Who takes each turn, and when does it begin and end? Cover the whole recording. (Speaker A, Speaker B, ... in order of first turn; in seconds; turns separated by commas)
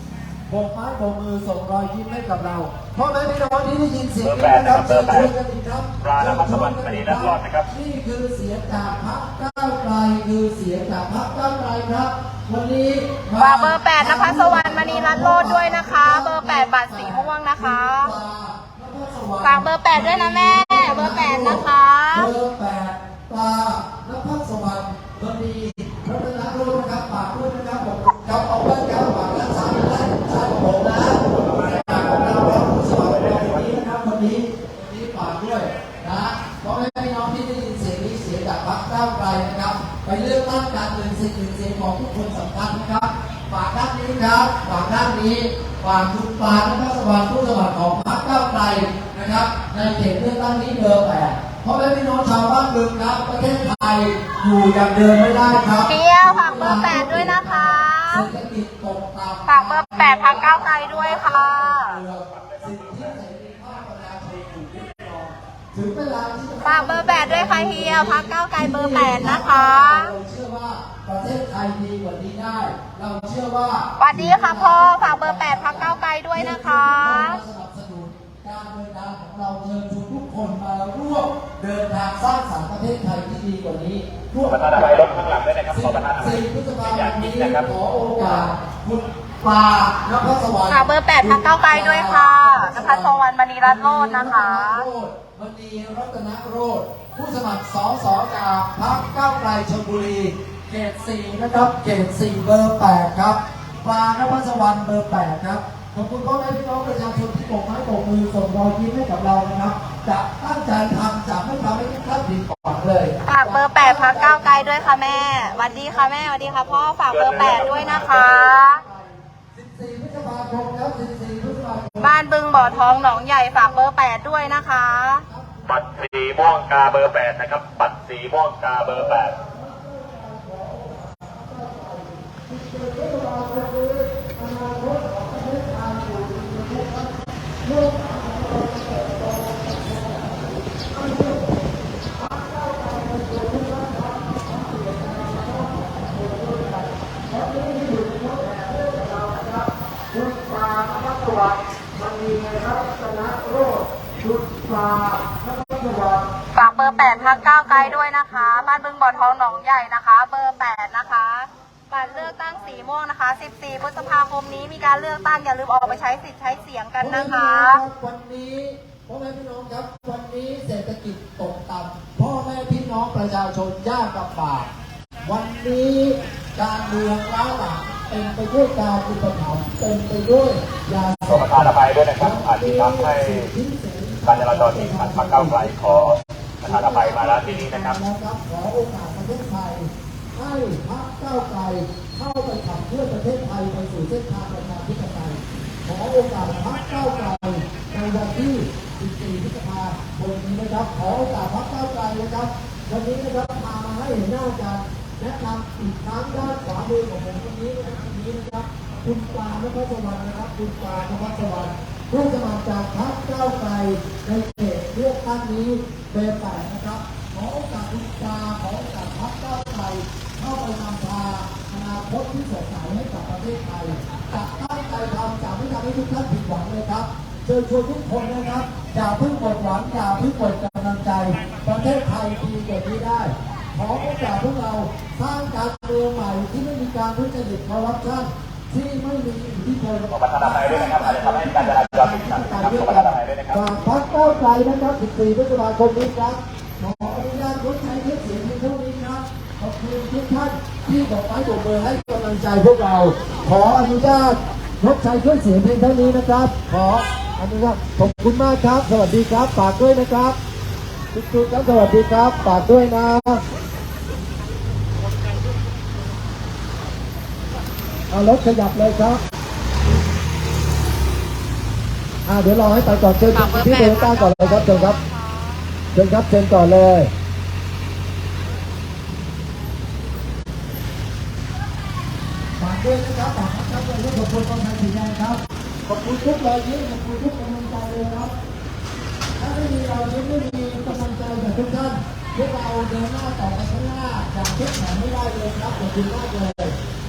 Speaker A: 0.5-85.1, Speaker B: 4.2-5.3, Speaker B: 6.0-7.7, Speaker C: 13.4-18.1, Speaker C: 19.4-22.3, Speaker C: 55.8-58.3, Speaker C: 59.5-62.0, Speaker B: 62.3-63.0, Speaker C: 66.6-70.1, Speaker C: 74.0-77.4, Speaker B: 84.4-87.6, Speaker A: 85.7-126.1, Speaker C: 90.7-94.9, Speaker C: 113.2-118.8, Speaker B: 117.1-118.4, Speaker C: 122.0-125.2, Speaker B: 125.7-129.3, Speaker A: 128.8-141.5, Speaker A: 142.2-158.0, Speaker C: 156.5-167.8, Speaker A: 167.0-174.7, Speaker A: 175.2-260.4, Speaker B: 181.3-183.4, Speaker B: 184.2-186.1, Speaker B: 186.6-187.9, Speaker B: 240.1-243.6, Speaker A: 261.1-263.4, Speaker A: 268.1-269.2, Speaker A: 272.2-275.0, Speaker C: 273.3-275.7, Speaker A: 275.9-277.1, Speaker A: 282.6-288.3, Speaker A: 289.4-296.8